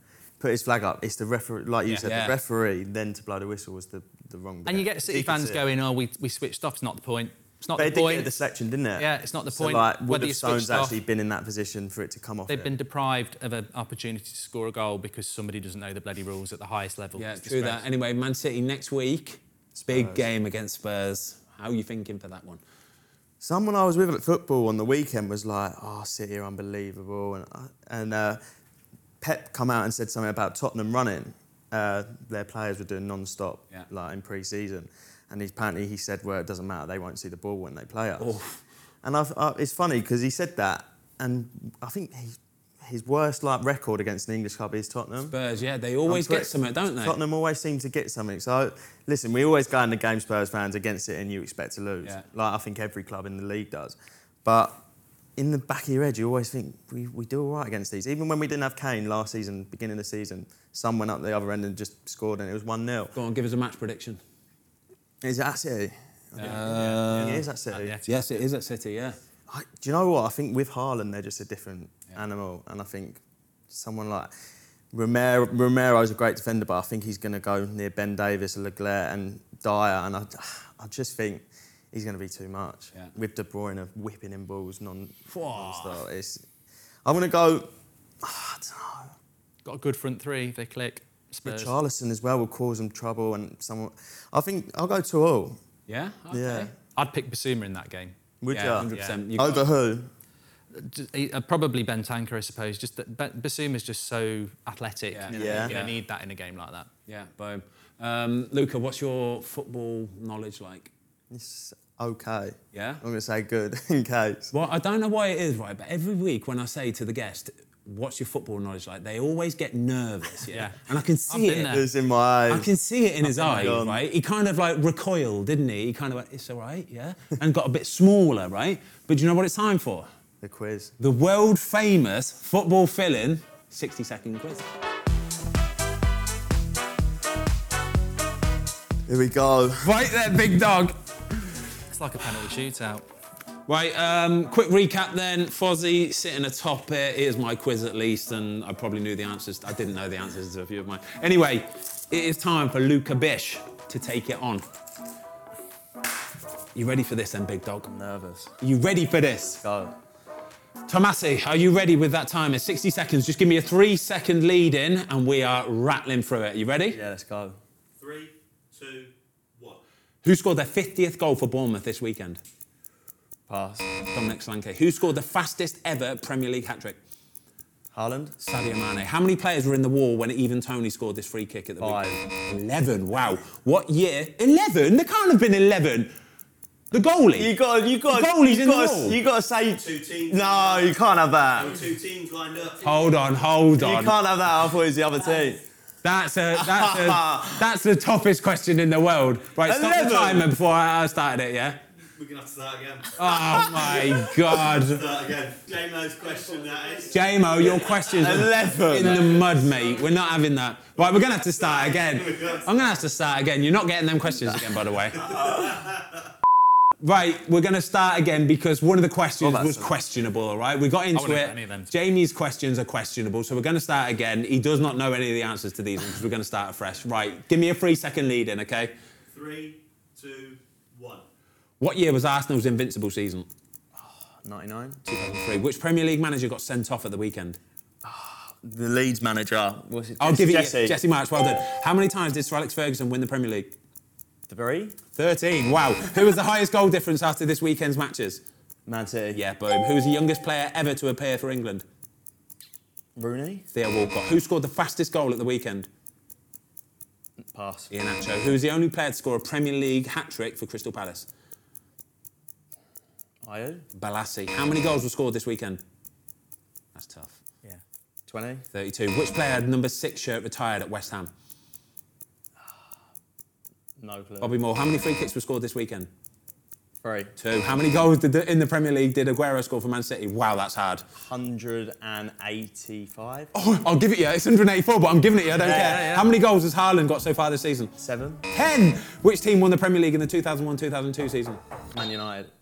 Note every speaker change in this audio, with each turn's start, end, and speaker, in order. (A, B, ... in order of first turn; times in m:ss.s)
0:00.4-0:05.6 A
0:01.9-0:02.4 B
0:04.6-0:08.3 C
0:07.8-0:12.7 A
0:09.0-0:11.0 C
0:12.5-0:17.8 C
0:17.2-0:22.6 B
0:19.8-0:20.2 A
0:23.4-0:28.4 A
0:29.2-0:38.4 A
0:38.2-0:38.6 B
0:39.0-0:45.3 A
0:45.3-0:47.2 B
0:46.1-0:54.8 A
0:55.4-1:03.1 A
1:03.1-1:04.2 B
1:05.2-1:08.0 A
1:06.4-1:07.4 B
1:06.4-1:08.4 C
1:08.0-1:09.2 B
1:09.5-1:14.3 A
1:14.9-1:26.4 A
1:25.3-1:26.0 B
1:27.0-1:27.7 A
1:28.2-1:29.1 A
1:29.6-1:31.7 C
1:31.4-1:35.6 A
1:35.9-1:36.7 B
1:36.3-1:36.7 A
1:37.0-1:38.1 C
1:38.4-1:40.1 A
1:38.5-1:39.7 B
1:38.9-1:39.1 C
1:40.7-1:46.9 C
1:45.1-1:45.9 B
1:45.3-1:45.7 A
1:47.1-1:50.9 B
1:51.3-1:54.5 A
1:52.7-1:53.0 B
1:54.5-2:01.7 B
2:00.5-2:01.8 C
2:01.7-2:02.7 A
2:02.5-2:10.1 B
2:03.2-2:04.0 A
2:10.4-2:10.9 A
2:11.0-2:14.6 B
2:19.1-2:19.9 A
2:19.8-2:21.0 B
2:21.9-2:23.0 C
2:23.7-2:34.6 B
2:36.7-2:37.9 B
2:37.9-2:38.5 A
2:38.6-2:39.6 B
2:39.5-2:40.0 A
2:40.9-2:47.0 B
2:46.9-2:47.6 A
2:48.0-2:49.8 D
2:50.2-2:52.4 B
2:53.5-2:53.9 A
2:54.1-2:57.0 B
2:57.9-2:58.3 A
2:58.4-3:06.1 B
3:01.8-3:02.2 A
3:06.9-3:07.5 B
3:07.4-3:11.8 A
3:08.1-3:09.2 B
3:09.8-3:11.0 D
3:11.5-3:13.0 D
3:12.8-3:14.1 B
3:13.7-3:15.6 A
3:16.0-3:21.8 B
3:16.5-3:17.6 A
3:19.6-3:20.5 A
3:22.2-3:29.9 D
3:23.2-3:25.1 B
3:23.3-3:24.6 A
3:27.1-3:35.3 B
3:28.1-3:29.4 A
3:31.1-3:33.0 D
3:35.2-3:35.8 A
3:35.3-3:35.8 D
3:37.0-3:48.9 B
3:39.4-3:39.9 A
3:41.1-3:41.9 C
3:49.3-3:51.2 D
3:51.8-3:53.5 B
3:54.0-3:55.0 A
3:55.0-3:57.6 B
3:58.0-4:01.0 A
4:00.2-4:03.7 B
4:04.5-4:05.0 A
4:05.1-4:08.4 B
4:08.9-4:09.4 A
4:09.3-4:11.8 B
4:13.2-4:13.6 A
4:13.7-4:15.9 B
4:17.5-4:17.9 A
4:17.9-4:21.3 B
4:23.4-4:23.8 A
4:23.9-4:25.8 B
4:26.9-4:27.4 B
4:28.3-4:28.6 A
4:28.7-4:31.3 B
4:34.0-4:34.6 A
4:34.4-4:36.1 B
4:37.0-4:37.3 A
4:37.4-4:41.0 B
4:41.2-4:43.5 A
4:43.5-4:47.9 B
4:45.5-4:46.1 A
4:45.6-4:46.3 C
4:48.0-4:48.4 A
4:48.5-4:51.6 B
4:51.9-4:52.5 A